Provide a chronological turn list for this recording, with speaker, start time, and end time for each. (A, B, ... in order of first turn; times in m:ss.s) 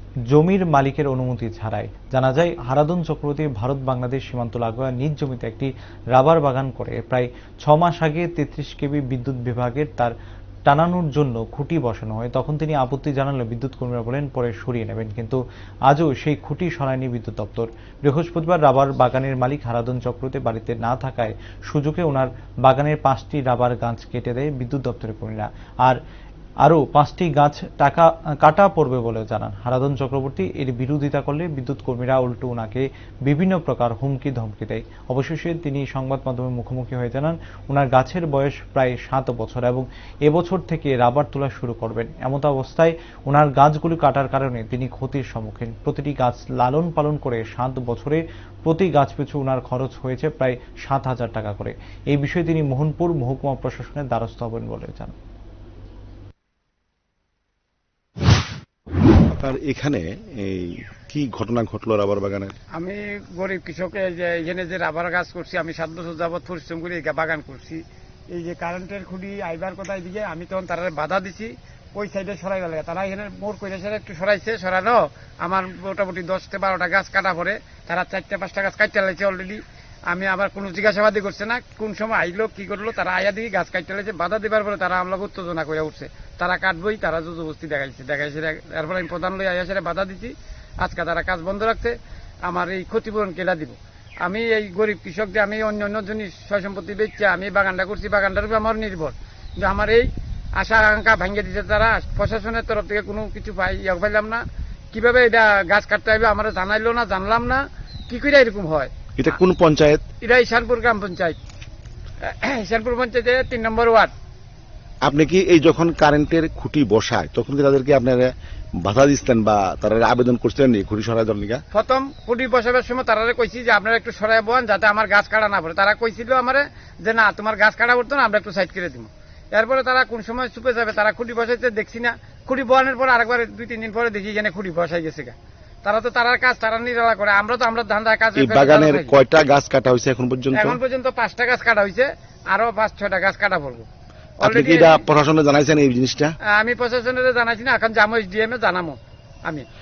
0:00.3-0:10.1 A
0:10.6-0:26.0 A
0:26.6-0:55.1 A
0:59.3-1:02.5 B
1:02.7-1:31.9 C
1:32.5-1:44.4 C
1:44.9-1:48.9 C
1:49.2-1:50.0 B
1:50.2-1:51.4 C
1:52.2-1:54.1 C
1:55.0-2:01.6 B
2:01.7-2:19.2 C
2:18.4-2:20.8 B
2:20.5-2:23.9 C
2:24.4-2:25.0 C
2:24.4-2:26.3 B
2:26.5-2:29.6 C